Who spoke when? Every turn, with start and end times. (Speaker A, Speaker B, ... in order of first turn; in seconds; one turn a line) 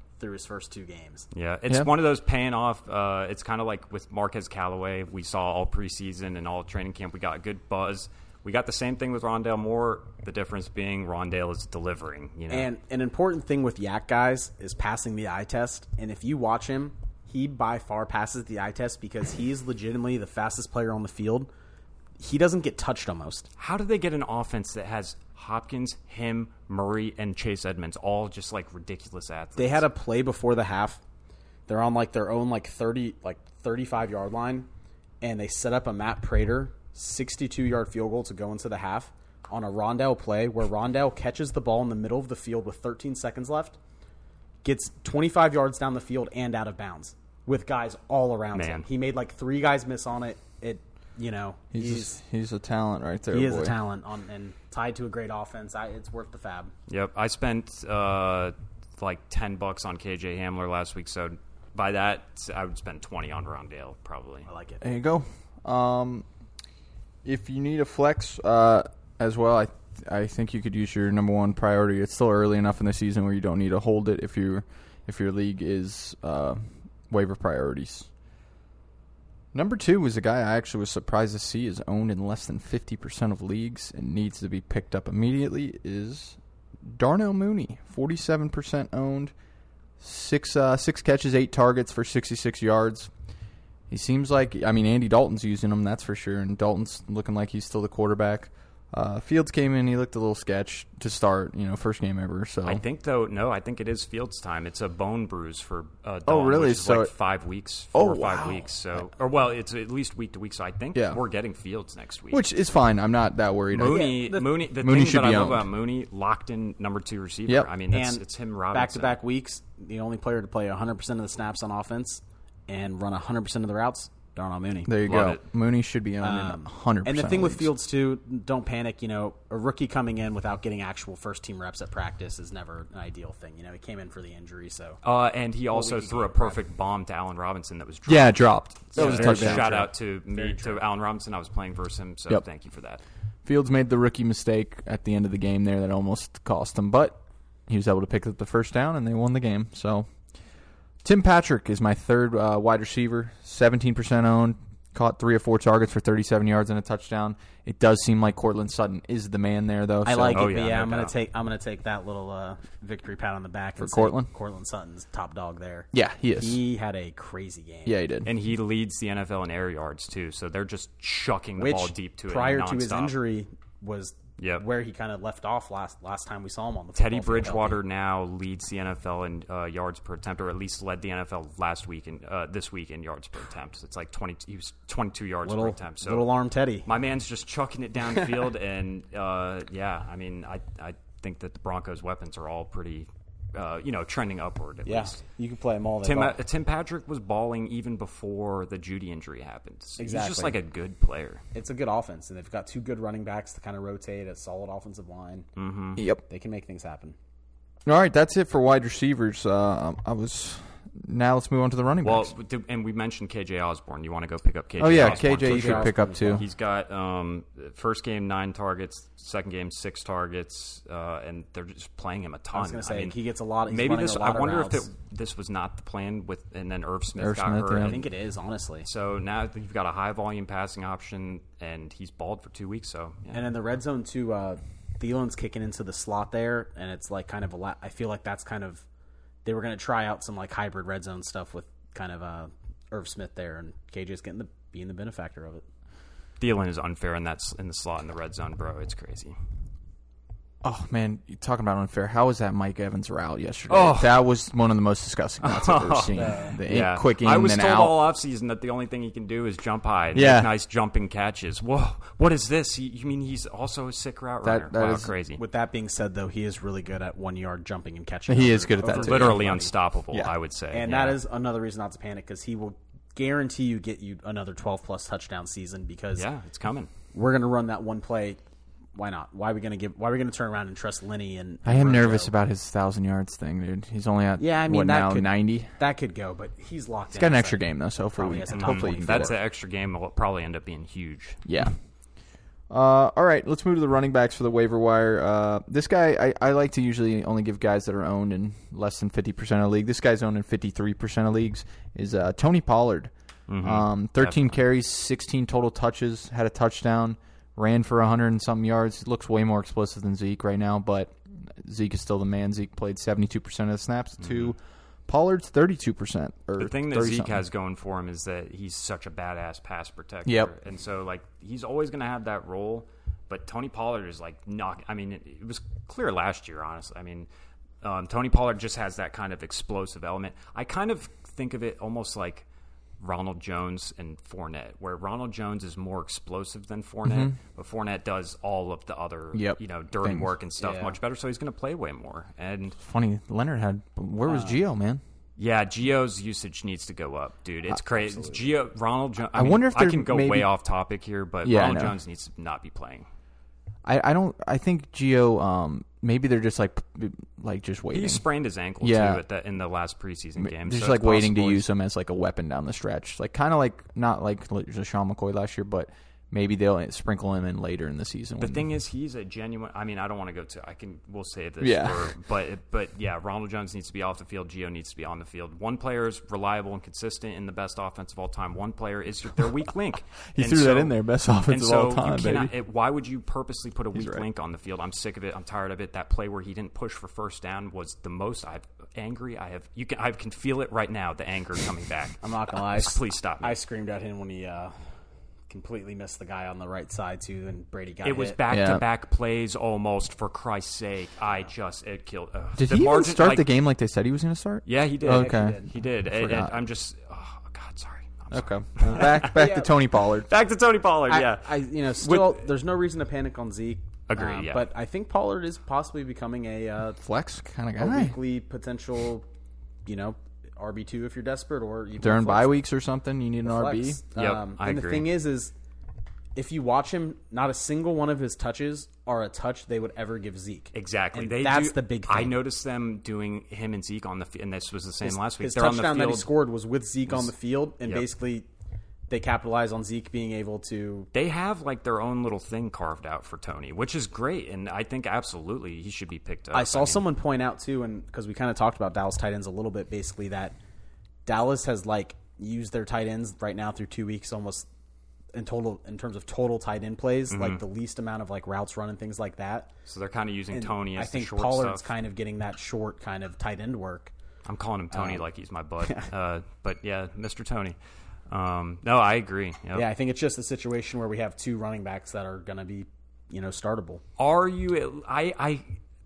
Speaker A: 0.2-1.2
Speaker B: 1.3-12.7
Speaker A: 12.5-21.5
Speaker A: 22.2-23.5
Speaker B: 23.6-29.9
Speaker A: 29.6-31.0
Speaker A: 31.7-34.7
Speaker A: 35.2-43.8
Speaker A: 44.6-52.2
Speaker B: 48.5-48.9
Speaker C: 51.7-53.8
Speaker A: 53.3-56.7
Speaker B: 56.9-64.5
Speaker A: 64.5-64.8
Speaker C: 64.8-66.2
Speaker C: 67.2-78.1
Speaker C: 79.5-89.3
Speaker C: 90.0-93.1
Speaker C: 93.9-102.8
Speaker B: 102.6-112.4
Speaker C: 106.2-107.1
Speaker C: 107.9-108.7
Speaker C: 110.9-111.2
Speaker C: 112.3-114.1
Speaker B: 113.7-119.2
Speaker A: 113.8-114.5
Speaker C: 114.6-115.7
Speaker A: 117.9-124.9
Speaker C: 124.8-127.7
Speaker B: 125.0-125.4
Speaker A: 126.2-135.0
Speaker B: 135.0-143.0
Speaker A: 135.7-136.6
Speaker C: 138.1-139.8
Speaker A: 138.9-140.8
Speaker C: 143.4-150.1
Speaker C: 151.0-160.5
Speaker A: 160.0-167.9
Speaker B: 160.3-161.1
Speaker C: 163.8-164.3
Speaker C: 165.9-166.6
Speaker C: 167.8-168.3
Speaker B: 168.2-173.2
Speaker A: 171.6-177.8
Speaker B: 174.4-174.6
Speaker B: 176.9-186.3
Speaker A: 185.4-186.9
Speaker B: 186.8-195.2
Speaker A: 194.8-196.4
Speaker B: 196.0-201.4
Speaker A: 200.0-200.6
Speaker A: 201.5-205.5
Speaker B: 205.6-206.0
Speaker C: 206.0-206.2
Speaker A: 206.3-207.2
Speaker C: 207.8-212.3
Speaker B: 212.0-223.2
Speaker C: 214.8-216.4
Speaker A: 214.9-216.4
Speaker A: 222.5-224.9
Speaker B: 223.7-228.1
Speaker C: 227.2-228.0
Speaker A: 227.8-228.9
Speaker B: 228.8-233.4
Speaker A: 233.3-238.8
Speaker A: 239.4-245.6
Speaker B: 246.4-249.3
Speaker C: 250.6-258.0
Speaker B: 253.7-254.2
Speaker B: 255.4-265.4
Speaker A: 256.1-256.6
Speaker C: 260.1-260.5
Speaker C: 264.4-265.1
Speaker A: 265.4-269.7
Speaker C: 268.3-269.6
Speaker B: 268.8-271.2
Speaker A: 270.7-276.3
Speaker B: 276.1-276.9
Speaker A: 277.1-278.4
Speaker A: 278.9-282.3
Speaker C: 281.6-285.7
Speaker A: 284.4-289.4
Speaker C: 287.1-289.3
Speaker B: 288.5-291.4
Speaker C: 291.4-291.8
Speaker C: 292.7-303.1
Speaker B: 303.5-304.6
Speaker C: 303.6-317.4
Speaker B: 314.2-314.5
Speaker B: 316.6-327.3
Speaker C: 320.2-320.5
Speaker B: 327.8-332.4
Speaker B: 333.0-342.8
Speaker C: 337.0-337.3
Speaker C: 339.3-340.3
Speaker A: 340.6-341.0
Speaker C: 342.8-345.0
Speaker A: 344.2-344.6
Speaker B: 345.4-353.1
Speaker A: 347.9-348.5
Speaker C: 349.3-350.5
Speaker C: 351.4-351.9
Speaker C: 353.8-358.2
Speaker B: 357.9-361.6
Speaker C: 358.8-359.2
Speaker C: 360.4-368.7
Speaker B: 368.4-380.9
Speaker C: 371.6-372.1
Speaker C: 380.3-382.5
Speaker B: 381.5-393.6
Speaker C: 383.9-384.2
Speaker A: 392.2-394.7
Speaker A: 395.5-398.4
Speaker B: 398.0-403.5
Speaker C: 398.5-398.8
Speaker C: 402.6-406.6
Speaker B: 404.6-412.4
Speaker A: 405.1-405.7
Speaker C: 408.3-410.3
Speaker A: 408.9-409.7
Speaker A: 411.1-417.0
Speaker B: 414.1-414.6
Speaker C: 417.0-418.2
Speaker A: 417.8-419.2
Speaker A: 419.9-422.6
Speaker C: 422.0-424.0
Speaker A: 423.4-425.5
Speaker B: 424.1-425.1
Speaker A: 426.4-432.3
Speaker B: 430.7-436.3
Speaker A: 435.0-438.5
Speaker A: 439.1-441.1
Speaker B: 441.1-447.0
Speaker A: 446.5-450.6
Speaker A: 451.2-454.7
Speaker A: 455.3-459.7
Speaker B: 457.3-457.6
Speaker B: 459.9-461.9
Speaker A: 460.5-464.1
Speaker B: 464.4-467.8
Speaker A: 464.9-465.2
Speaker A: 465.8-466.1
Speaker B: 468.3-469.9
Speaker A: 469.7-474.0
Speaker B: 474.2-475.6